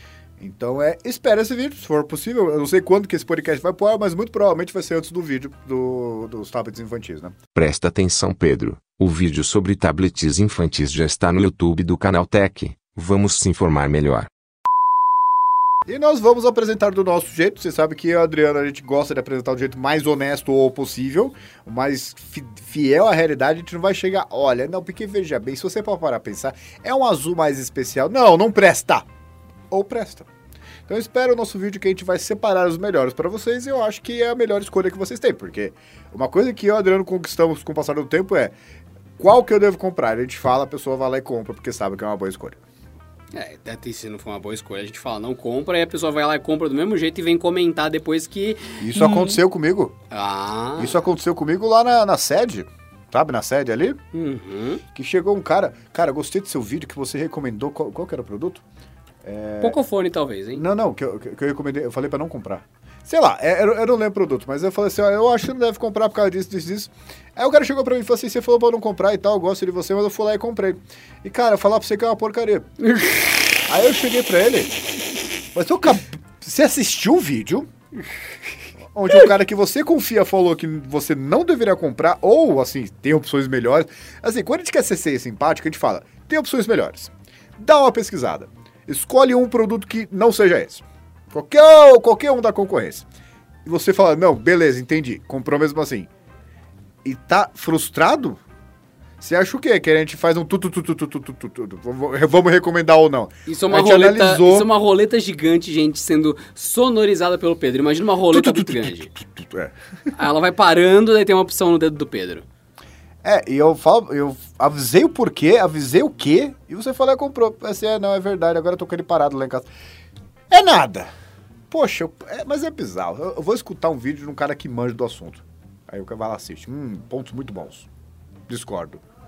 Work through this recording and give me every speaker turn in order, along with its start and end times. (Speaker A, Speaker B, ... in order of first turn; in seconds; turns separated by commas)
Speaker A: 0.4-7.4, Speaker B: 7.5-14.3, Speaker A: 15.9-29.1, Speaker A: 29.7-30.3, Speaker A: 30.9-38.5, Speaker A: 39.2-42.6, Speaker C: 43.3-49.4, Speaker A: 48.8-50.0, Speaker C: 50.1-50.9, Speaker A: 50.8-54.0, Speaker C: 54.1-54.8, Speaker A: 54.9-58.6, Speaker A: 59.2-59.8, Speaker C: 59.6-60.6, Speaker A: 60.5-72.7, Speaker C: 72.8-73.4, Speaker A: 73.7-74.8, Speaker A: 75.5-77.7, Speaker A: 78.9-93.0, Speaker A: 93.6-96.1, Speaker A: 97.0-98.4, Speaker A: 99.2-104.7, Speaker C: 103.5-109.1, Speaker A: 108.3-109.7, Speaker C: 110.1-112.4, Speaker A: 113.2-119.7, Speaker A: 120.5-121.1, Speaker A: 121.7-127.9, Speaker A: 128.5-129.0